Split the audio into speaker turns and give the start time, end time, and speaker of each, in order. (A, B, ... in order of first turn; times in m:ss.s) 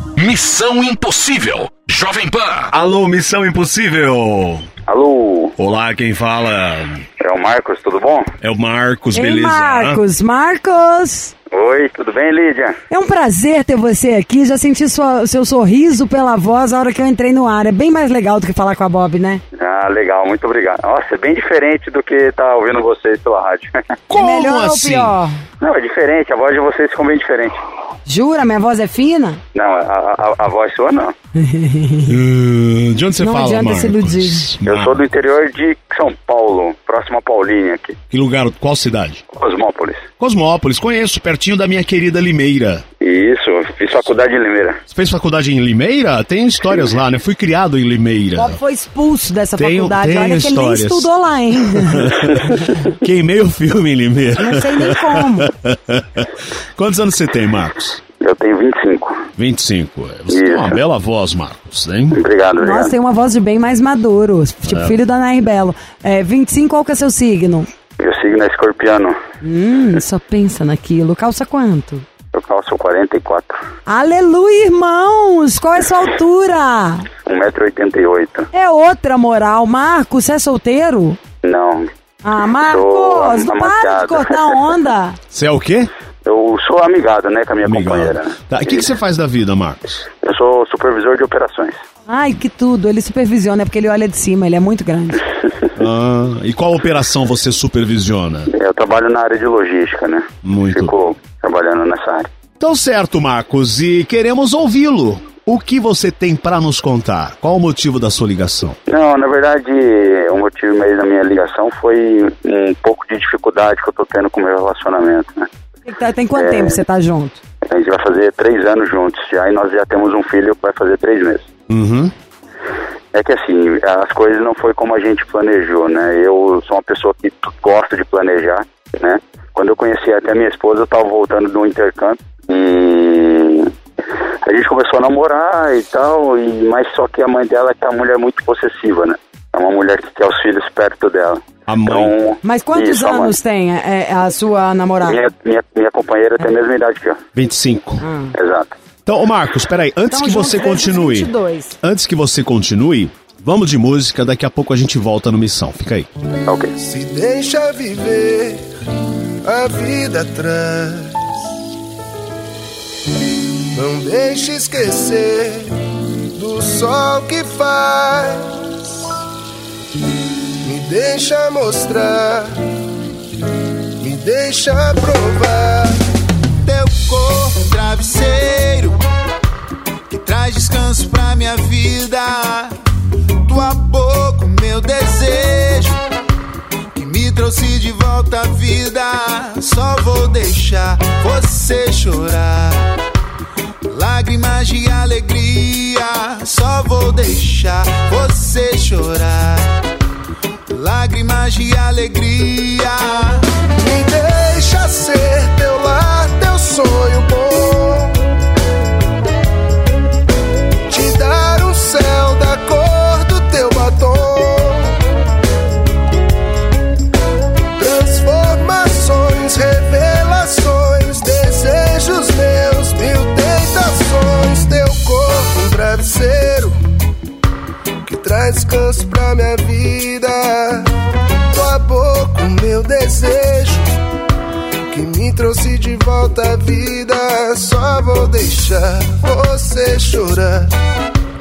0:00.2-0:02.7 A
0:02.7-0:04.6 B
0:04.9-0:05.5 C
0:05.6-0:07.0 B
0:07.2-0:08.3 C
0:08.4-0:10.0 B
0:09.1-0:11.3 D
0:11.5-0:12.8 C
0:12.9-0:19.4 D
0:19.6-0:23.8 C
0:24.1-0:25.1 B
0:24.1-0:25.4 D
0:25.6-0:27.6 C
0:28.1-0:29.4 D
0:29.5-0:31.1 C
0:31.4-0:32.1 D
0:32.0-0:35.0 B
0:33.2-0:34.5 D
0:34.6-0:38.0 C
0:38.1-0:39.2 B
0:39.3-0:40.0 C
0:40.2-0:42.8 B
0:43.0-0:44.8 C
0:44.9-0:48.6 B
0:48.4-0:52.3 D
0:49.6-0:51.1 B
0:51.6-0:58.0 B
0:54.4-0:55.5 D
0:58.2-0:59.2 C
0:59.4-1:02.2 B
1:00.3-1:00.8 C
1:02.1-1:02.9 C
1:02.6-1:07.7 D
1:04.7-1:04.9 B
1:08.0-1:09.2 C
1:09.4-1:12.0 D
1:12.3-1:13.6 C
1:13.9-1:17.1 D
1:17.2-1:18.5 C
1:18.5-1:21.2 D
1:21.4-1:21.9 C
1:22.2-1:25.2 D
1:22.6-1:24.5 C
1:25.3-1:25.9 B
1:26.2-1:28.3 C
1:27.6-1:30.0 B
1:30.2-1:31.8 C
1:32.1-1:35.2 D
1:35.8-1:38.5 B
1:38.5-1:42.3 C
1:40.4-1:40.9 B
1:42.6-1:48.8 B
1:48.9-1:55.5 C
1:55.8-1:57.4 D
1:56.4-1:56.8 C
1:57.6-2:01.4 C
2:01.7-2:02.1 B
2:03.1-2:13.7 C
2:14.4-2:23.3 C
2:21.7-2:22.1 B
2:22.4-2:25.2 D
2:25.0-2:27.2 C
2:27.3-2:28.0 B
2:28.0-2:28.3 D
2:28.3-2:28.7 C
2:29.0-2:36.1 B
2:30.1-2:31.8 D
2:36.4-2:36.7 C
2:36.8-2:38.6 E
2:39.4-2:41.2 E
2:43.7-2:45.7 E
2:46.4-2:48.9 E
2:50.6-2:52.5 E
2:54.0-2:56.0 E
2:56.6-2:59.0 F
3:00.1-3:02.7 F
3:03.4-3:06.0 F
3:06.9-3:12.9 F
3:13.9-3:19.7 F
3:20.7-3:23.5 F
3:23.8-3:28.2 E
3:30.9-3:34.9 E
3:37.8-3:46.8 E
3:48.0-3:50.9 E
3:51.5-3:53.9 E
3:54.9-4:00.7 E